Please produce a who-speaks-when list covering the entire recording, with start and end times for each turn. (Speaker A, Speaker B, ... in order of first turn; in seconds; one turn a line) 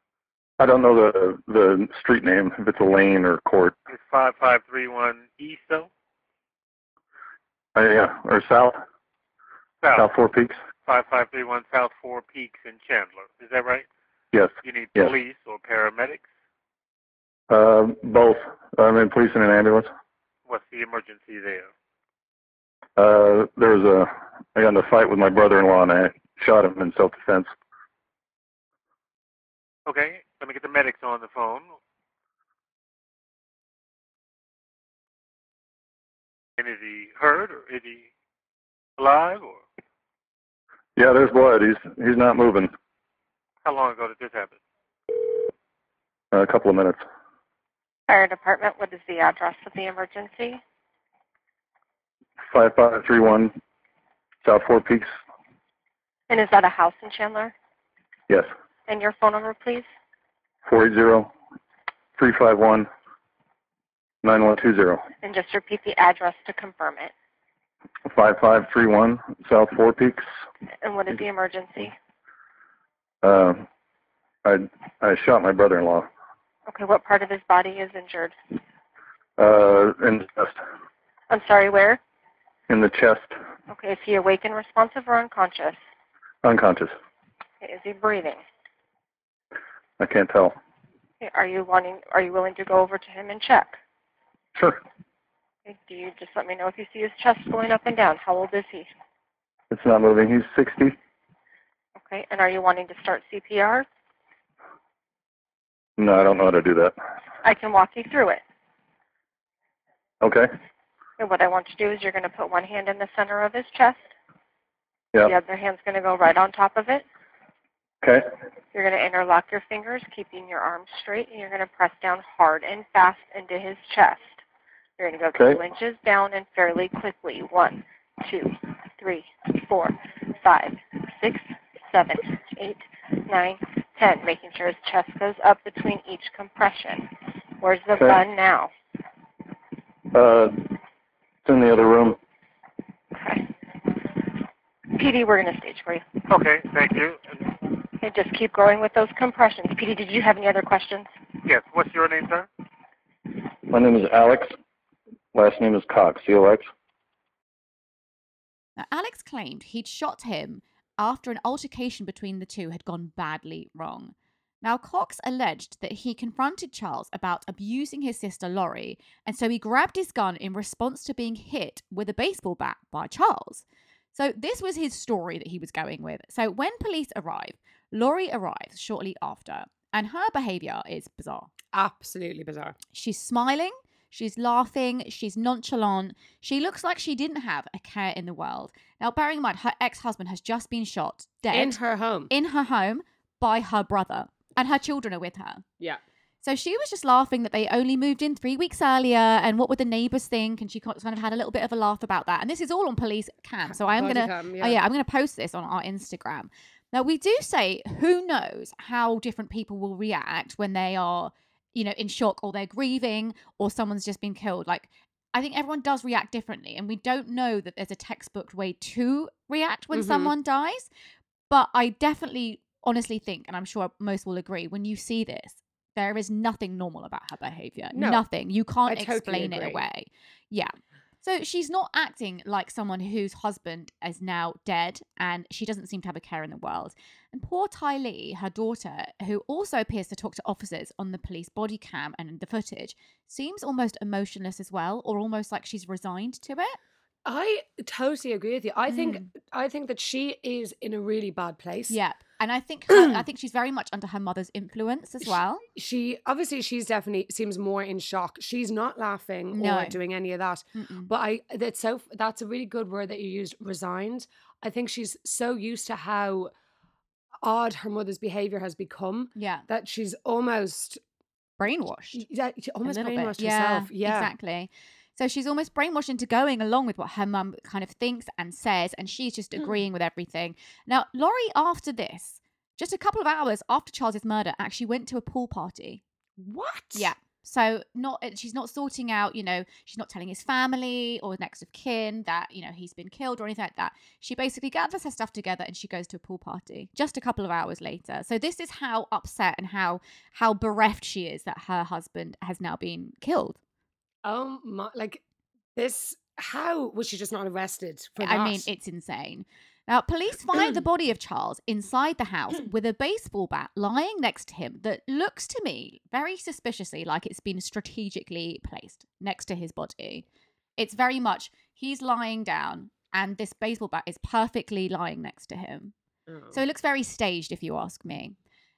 Speaker A: 0.6-3.8
Speaker B: 3.9-5.9
Speaker A: 7.8-8.8
Speaker B: 9.8-10.1
Speaker A: 9.9-10.6
Speaker B: 10.9-13.9
Speaker A: 14.3-15.1
Speaker B: 14.6-16.3
Speaker A: 17.5-19.9
Speaker B: 20.5-21.7
Speaker A: 23.0-27.5
Speaker B: 29.9-31.7
Speaker B: 36.6-38.1
Speaker B: 39.0-39.6
Speaker A: 41.0-42.7
Speaker B: 43.6-44.6
Speaker A: 46.3-47.0
Speaker C: 48.1-50.6
Speaker A: 52.5-53.5
Speaker A: 54.4-55.1
Speaker C: 56.3-57.5
Speaker C: 58.9-59.9
Speaker A: 60.7-61.3
Speaker A: 62.2-62.9
Speaker A: 64.2-65.0
Speaker C: 65.2-67.1
Speaker A: 68.1-70.2
Speaker C: 70.8-72.0
Speaker A: 73.2-73.7
Speaker A: 74.5-76.1
Speaker C: 76.7-78.3
Speaker A: 79.4-80.5
Speaker C: 81.3-82.0
Speaker A: 82.7-83.3
Speaker C: 83.7-85.8
Speaker A: 86.4-86.9
Speaker C: 87.6-88.4
Speaker A: 90.0-90.6
Speaker C: 91.2-93.8
Speaker A: 94.6-94.8
Speaker C: 95.7-98.9
Speaker A: 99.7-101.0
Speaker C: 102.0-103.9
Speaker A: 106.0-107.0
Speaker C: 107.4-108.4
Speaker A: 110.2-110.5
Speaker C: 111.2-114.0
Speaker C: 115.2-117.0
Speaker C: 118.7-124.3
Speaker C: 125.0-138.7
Speaker A: 125.3-125.6
Speaker A: 140.1-140.7
Speaker A: 141.4-142.2
Speaker C: 143.1-144.4
Speaker C: 144.9-146.2
Speaker B: 146.3-147.2
Speaker C: 147.9-151.1
Speaker B: 151.4-152.5
Speaker A: 153.7-154.5
Speaker A: 155.3-156.7
Speaker D: 158.8-181.5
Speaker E: 181.7-182.8
Speaker D: 182.9-191.8
Speaker E: 191.5-192.3
Speaker D: 192.3-195.7
Speaker D: 196.4-220.9
Speaker E: 203.7-204.8
Speaker E: 219.9-220.3
Speaker D: 221.5-230.7
Speaker E: 227.9-228.2
Speaker E: 228.9-229.8
Speaker D: 231.2-246.8
Speaker E: 247.2-252.0
Speaker D: 248.9-249.3
Speaker D: 251.9-255.6
Speaker E: 252.9-253.2
Speaker E: 255.7-266.5
Speaker D: 259.5-260.0
Speaker D: 260.8-261.1
Speaker E: 267.4-271.0
Speaker D: 269.4-269.7
Speaker D: 271.6-272.2
Speaker E: 272.1-274.3
Speaker D: 272.9-286.0
Speaker E: 286.4-287.1
Speaker D: 286.9-303.6
Speaker E: 304.2-305.2
Speaker E: 305.8-308.7
Speaker D: 308.2-320.3
Speaker D: 320.8-325.9
Speaker E: 326.3-326.6
Speaker D: 326.5-328.4